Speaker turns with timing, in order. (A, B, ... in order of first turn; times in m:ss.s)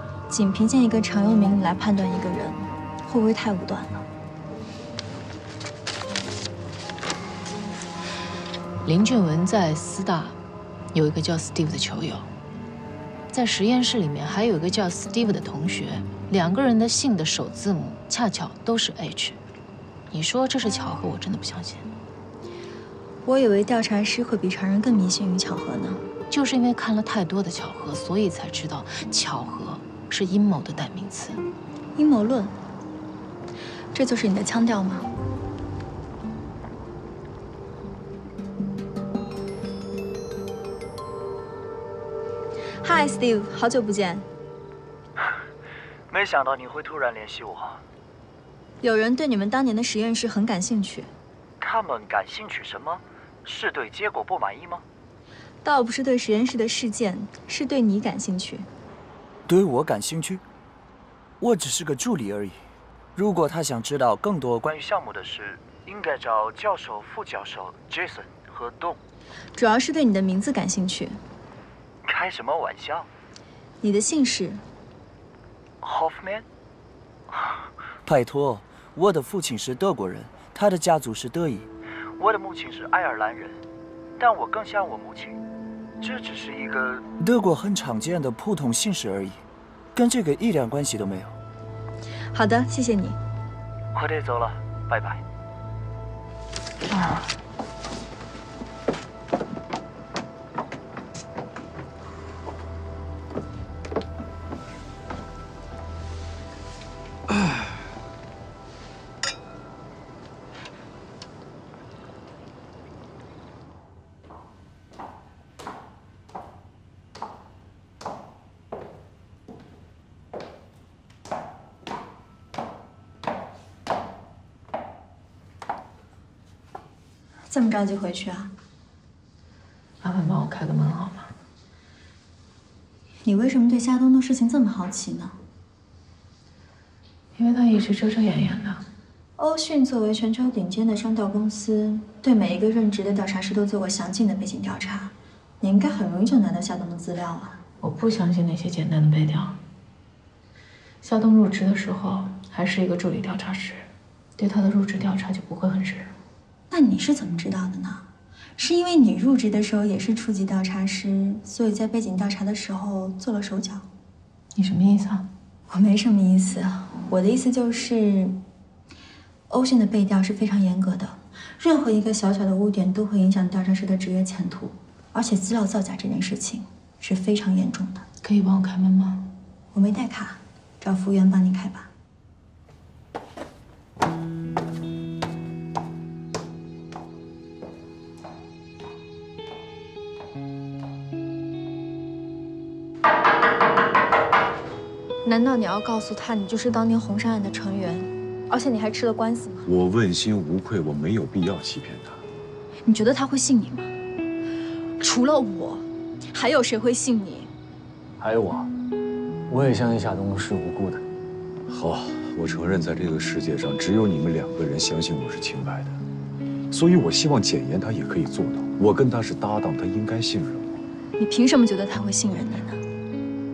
0:00.3-0:04.0 A
0:08.8-0:10.4 B
0:10.9-0:12.3 B
0:13.3-0:19.4 B
0:20.1-0:21.9 B
0:23.2-0:26.0 A
0:26.3-0:31.4 B
0:32.0-0:32.6 A
0:33.9-0:35.1 A
0:42.8-0:44.3 A
0:46.1-0:47.8 C
0:48.8-0:51.1 A
0:51.6-0:54.8 C
0:55.6-0:58.7 A
0:59.5-1:00.4 C
1:01.4-1:02.6 C
1:03.2-1:09.0 C
1:09.6-1:11.2 A
1:12.0-1:13.1 C
1:13.8-1:14.6 A
1:15.8-1:16.4 C
1:18.0-1:23.6 C
1:24.2-1:25.4 C
1:26.0-1:29.4 C
1:29.9-1:31.4 C
1:32.3-1:33.2 A
1:33.9-1:35.2 C
2:07.5-2:08.5 A
2:10.0-2:11.3 B
2:13.2-2:15.4 A
2:17.4-2:18.8 B
2:19.4-2:27.6 A
2:27.8-2:29.6 B
2:31.0-2:36.1 B
2:36.7-2:38.0 A
2:38.6-2:43.9 A
2:44.5-2:45.3 B
2:45.7-2:48.4 A
2:49.5-2:58.0 A
2:58.2-2:59.3 B
2:59.7-3:01.9 A
3:15.2-3:19.6 A
3:19.6-3:22.2 D
3:22.8-3:23.9 A
3:25.0-3:27.5 A
3:28.2-3:28.7 E
3:29.5-3:31.0 E
3:31.7-3:36.0 D
3:36.7-3:40.7 D
3:41.2-3:42.8 A